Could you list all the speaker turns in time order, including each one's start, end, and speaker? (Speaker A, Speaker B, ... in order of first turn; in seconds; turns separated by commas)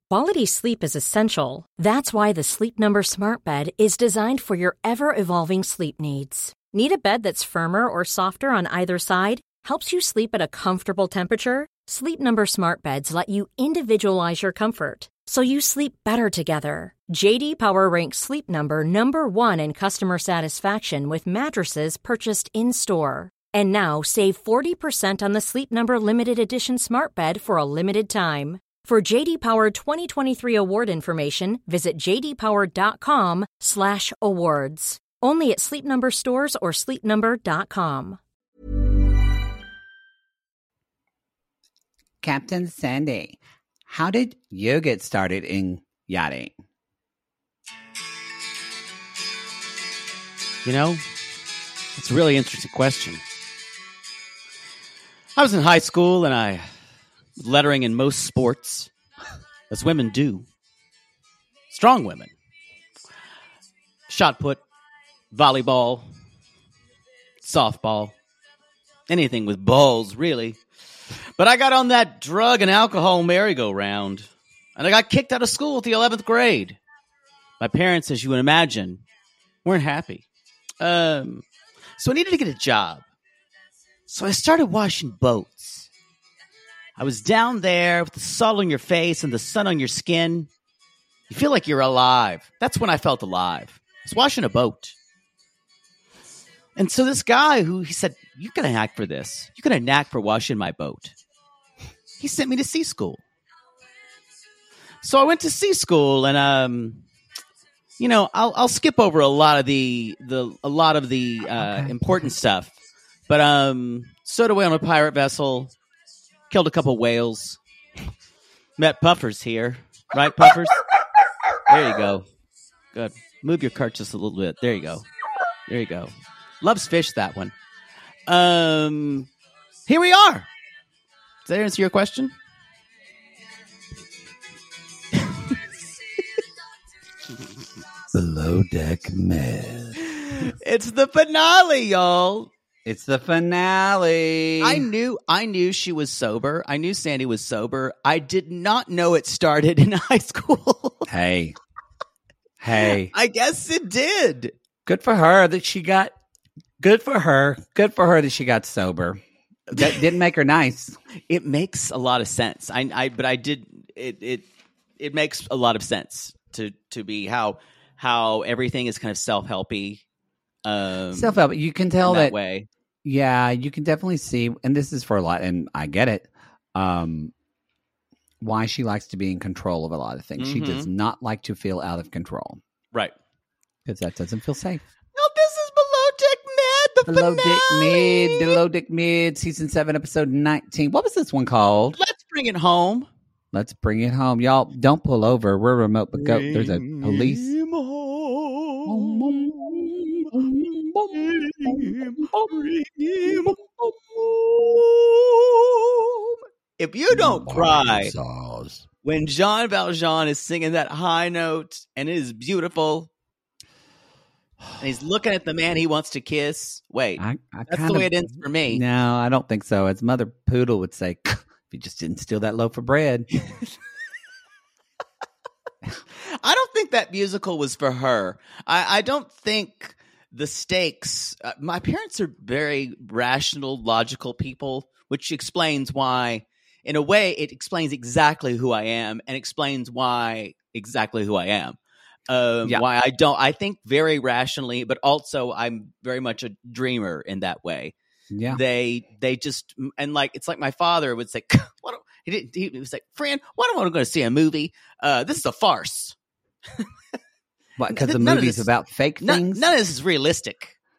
Speaker A: 0.1-38.2, Speaker B: 42.2-46.5, Speaker C: 50.6-51.0, Speaker C: 51.9-53.2, Speaker C: 55.4-56.7, Speaker C: 57.4-58.9, Speaker C: 59.7-60.5, Speaker C: 61.7-62.3, Speaker C: 64.1-64.6, Speaker C: 65.3-66.1, Speaker C: 67.4-68.1, Speaker C: 69.1-70.6, Speaker C: 71.4-76.8, Speaker C: 77.6-79.0, Speaker C: 79.6-80.2, Speaker C: 80.8-81.4, Speaker C: 82.0-83.0, Speaker C: 84.1-85.9, Speaker C: 87.0-90.5, Speaker C: 91.3-94.9, Speaker C: 96.8-101.1, Speaker C: 102.2-103.2, Speaker C: 105.0-107.0, Speaker C: 108.0-112.7, Speaker B: 111.6-112.3, Speaker C: 113.3-115.7, Speaker C: 116.5-117.6, Speaker C: 118.8-120.8, Speaker C: 121.7-122.2, Speaker C: 122.9-125.0, Speaker C: 125.7-127.5, Speaker C: 128.3-129.3, Speaker C: 129.9-130.5, Speaker C: 131.4-132.3, Speaker C: 135.1-135.6, Speaker B: 138.1-140.0, Speaker C: 140.2-142.5, Speaker B: 142.8-144.9, Speaker C: 144.6-151.1, Speaker B: 151.1-151.6, Speaker B: 152.6-153.1, Speaker C: 152.8-154.5, Speaker B: 154.8-156.1, Speaker B: 156.8-159.2, Speaker C: 159.7-160.0, Speaker B: 159.7-160.9, Speaker C: 161.3-164.4, Speaker C: 165.0-170.0, Speaker C: 170.6-171.4, Speaker B: 171.1-172.3, Speaker C: 172.0-172.7, Speaker B: 173.0-177.3, Speaker B: 178.4-182.6, Speaker C: 180.4-180.9, Speaker B: 183.8-184.8, Speaker C: 185.2-188.6, Speaker B: 187.1-192.0, Speaker C: 192.0-193.1, Speaker B: 193.5-197.5, Speaker C: 196.1-200.3, Speaker B: 198.8-202.6, Speaker C: 201.1-208.1, Speaker B: 203.2-203.6, Speaker B: 207.1-208.8, Speaker C: 209.0-213.1, Speaker C: 214.8-218.8, Speaker B: 217.2-218.1, Speaker B: 218.7-223.3, Speaker C: 226.2-241.8, Speaker C: 242.3-247.9, Speaker B: 248.3-248.6, Speaker C: 248.5-256.1, Speaker B: 257.8-259.7, Speaker C: 257.9-258.7, Speaker C: 259.2-260.7